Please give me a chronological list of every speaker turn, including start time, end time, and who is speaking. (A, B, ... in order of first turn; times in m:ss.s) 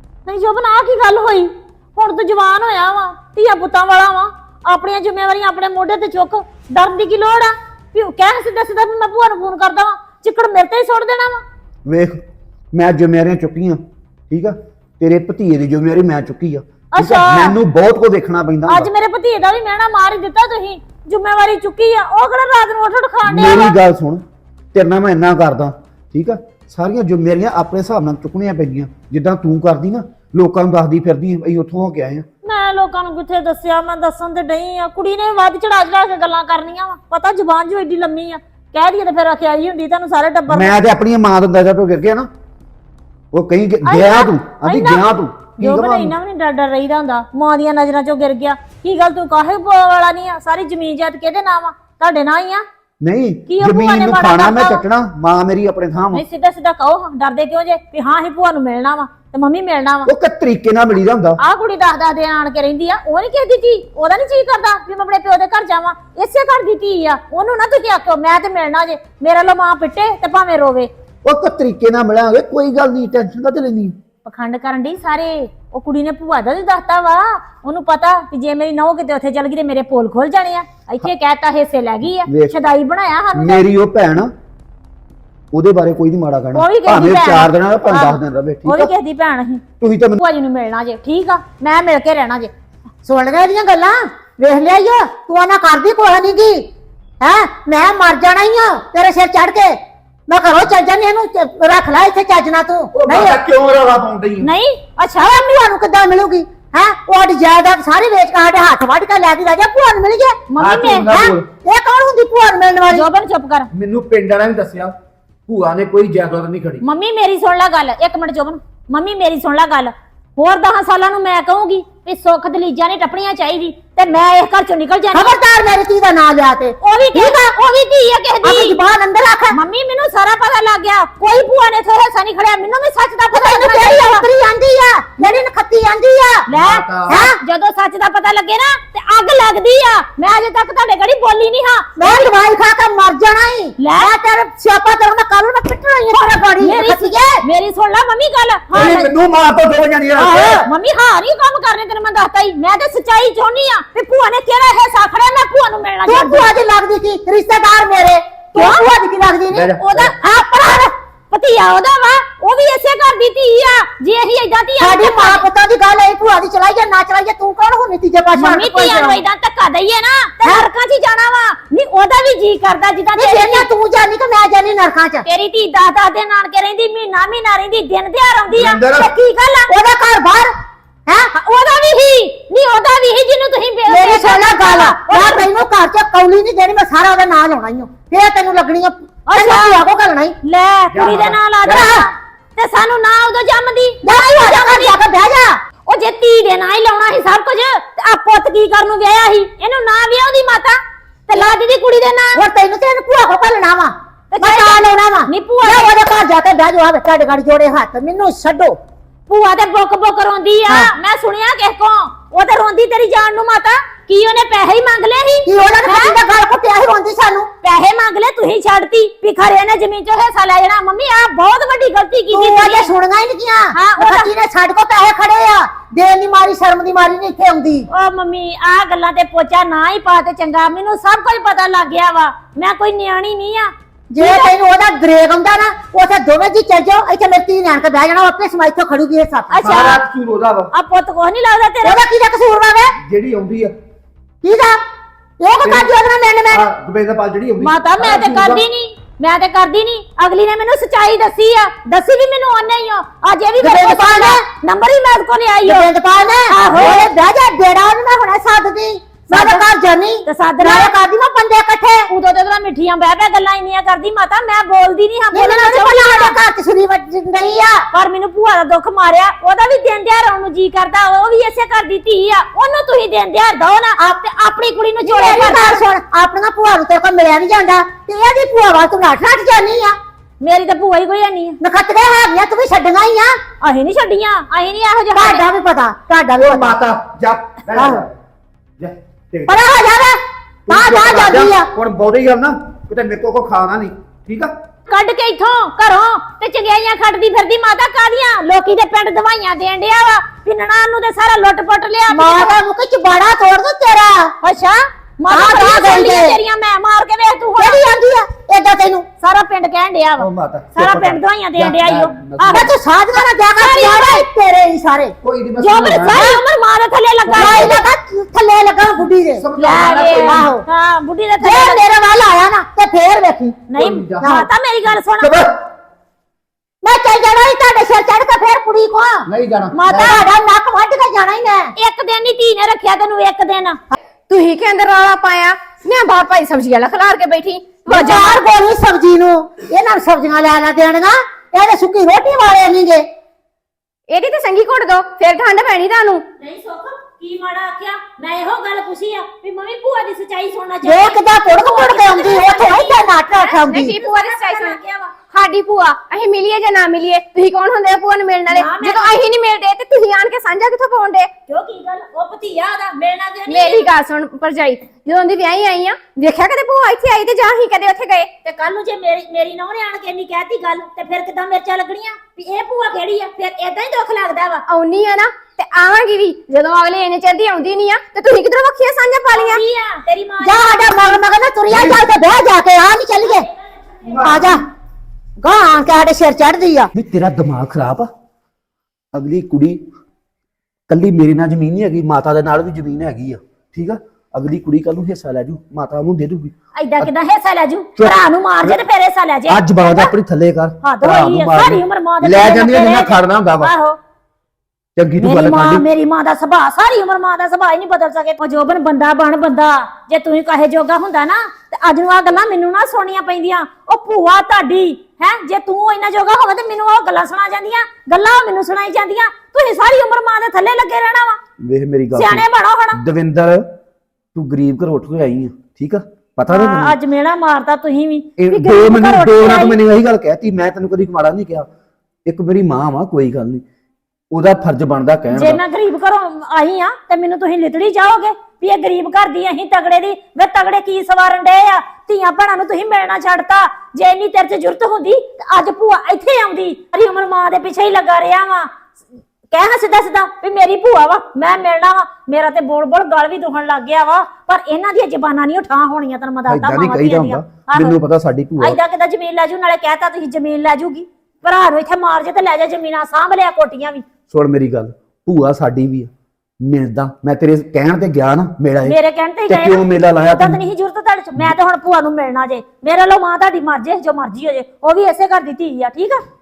0:00.3-0:11.4 A
0:11.9-0:12.2 B
0:12.7-0:18.9 B
0:16.9-0:17.6 A
0:18.7-0:23.8 A
0:23.3-0:24.2 B
0:24.7-0:32.2 B
0:32.4-0:40.8 A
0:40.5-0:42.3 B
0:43.3-0:46.1 B
0:43.8-0:45.0 A
0:45.6-0:52.6 A
0:53.0-0:56.2 B
0:53.5-0:54.8 A
0:56.1-1:00.1 A
1:00.1-1:01.4 B
1:01.4-1:10.9 A
1:11.2-1:14.0 B
1:14.2-1:23.7 A
1:22.3-1:22.6 B
1:23.4-1:24.3 B
1:25.5-1:28.9 B
1:26.5-1:29.6 A
1:29.8-1:30.2 B
1:30.2-1:32.5 A
1:33.0-1:36.6 C
1:37.2-1:39.7 C
1:40.3-1:43.4 C
1:42.9-1:44.5 B
1:44.4-1:45.3 A
1:45.2-1:50.4 C
1:50.5-1:51.1 A
1:50.6-1:51.4 B
1:51.1-1:53.1 C
1:52.9-1:53.7 A
1:53.7-1:54.9 B
1:55.5-1:56.8 B
1:56.8-2:05.3 A
2:05.1-2:07.6 C
2:06.8-2:08.8 A
2:08.4-2:09.6 C
2:09.5-2:14.2 A
2:13.3-2:16.5 C
2:16.5-2:22.3 A
2:16.6-2:17.2 B
2:17.1-2:17.3 C
2:22.0-2:27.4 C
2:23.8-2:24.1 A
2:26.1-2:29.1 A
2:28.7-2:30.6 B
2:30.2-2:36.5 A
2:30.3-2:30.7 C
2:36.1-2:39.8 C
2:38.6-2:38.8 A
2:39.5-2:40.1 B
2:39.8-2:45.4 A
2:40.4-2:40.9 C
2:44.8-2:49.2 C
2:48.4-2:53.7 A
2:53.2-2:55.3 C
2:55.2-2:59.7 A
2:58.5-2:59.1 B
2:59.7-3:00.5 C
3:01.3-3:05.5 A
3:03.9-3:10.4 C
3:09.3-3:09.8 A
3:10.4-3:15.0 A
3:10.9-3:11.8 B
3:11.7-3:12.1 C
3:14.0-3:15.6 C
3:15.9-3:22.4 A
3:22.4-3:28.8 C
3:24.3-3:25.9 A
3:29.3-3:36.2 A
3:30.7-3:30.9 C
3:35.5-3:37.5 C
3:37.6-3:42.9 A
3:42.3-3:47.9 C
3:43.7-3:44.3 A
3:47.9-3:54.5 A
3:54.1-3:59.8 C
3:59.5-4:00.0 A
3:59.6-4:00.7 B
4:00.7-4:02.0 A
4:01.8-4:03.0 C
4:03.0-4:03.7 B
4:04.4-4:04.8 C
4:05.4-4:06.7 C
4:05.6-4:08.6 B
4:07.6-4:15.9 A
4:13.6-4:14.4 C
4:15.6-4:22.1 C
4:16.5-4:17.1 A
4:19.3-4:19.6 A
4:20.3-4:20.9 A
4:22.1-4:26.4 A
4:25.3-4:27.8 C
4:27.9-4:35.8 A
4:35.1-4:40.0 C
4:40.4-4:41.6 A
4:41.6-4:43.3 C
4:43.6-4:45.4 A
4:45.2-4:46.8 C
4:46.4-4:48.2 B
4:47.8-4:48.0 C
4:48.8-4:49.6 B
4:49.5-4:51.7 C
4:50.7-4:54.5 B
4:54.9-5:02.5 A
5:02.1-5:04.3 C
5:04.4-5:07.8 A
5:05.3-5:06.4 C
5:07.6-5:09.1 C
5:09.2-5:12.7 A
5:10.2-5:12.7 B
5:12.5-5:15.2 C
5:13.5-5:14.2 A
5:15.2-5:16.2 B
5:15.6-5:17.8 A
5:16.1-5:16.4 C
5:17.3-5:17.8 B
5:17.4-5:19.4 C
5:19.4-5:20.5 B
5:19.6-5:21.8 A
5:20.2-5:20.6 C
5:21.4-5:23.6 C
5:23.7-5:25.4 A
5:23.8-5:24.3 B
5:24.2-5:24.5 C
5:25.2-5:25.5 B
5:26.8-5:29.3 C
5:29.3-5:30.1 B
5:29.7-5:30.3 A
5:29.9-5:31.7 C
5:31.8-5:33.8 A
5:34.3-5:38.4 D
5:37.9-5:43.0 C
5:44.1-5:46.2 D
5:46.4-5:55.1 A
5:50.8-5:54.0 C
5:53.7-5:54.8 D
5:55.3-6:01.3 D
5:58.5-5:59.1 A
6:01.5-6:03.9 A
6:03.5-6:08.3 D
6:08.4-6:14.6 A
6:14.7-6:19.6 D
6:19.3-6:21.2 A
6:20.4-6:23.5 C
6:21.7-6:22.0 B
6:23.2-6:24.5 A
6:24.1-6:24.6 B
6:24.2-6:24.6 C
6:25.4-6:26.9 C
6:27.0-6:28.1 B
6:29.1-6:29.8 B
6:30.9-6:37.1 B
6:36.8-6:40.1 A
6:38.0-6:38.8 B
6:39.5-6:43.7 B
6:40.8-6:44.0 A
6:45.0-6:45.8 B
6:45.2-7:01.4 A
7:01.6-7:03.7 B
7:02.2-7:03.0 A
7:04.4-7:07.0 B
7:06.5-7:09.8 A
7:08.4-7:11.7 B
7:12.3-7:13.6 B
7:14.3-7:15.6 B
7:15.3-7:28.7 A
7:29.5-7:38.0 A
7:36.5-7:38.8 B
7:38.6-7:44.1 A
7:44.3-7:46.1 B
7:46.6-7:49.0 B
7:48.8-7:56.2 A
7:49.5-7:50.6 B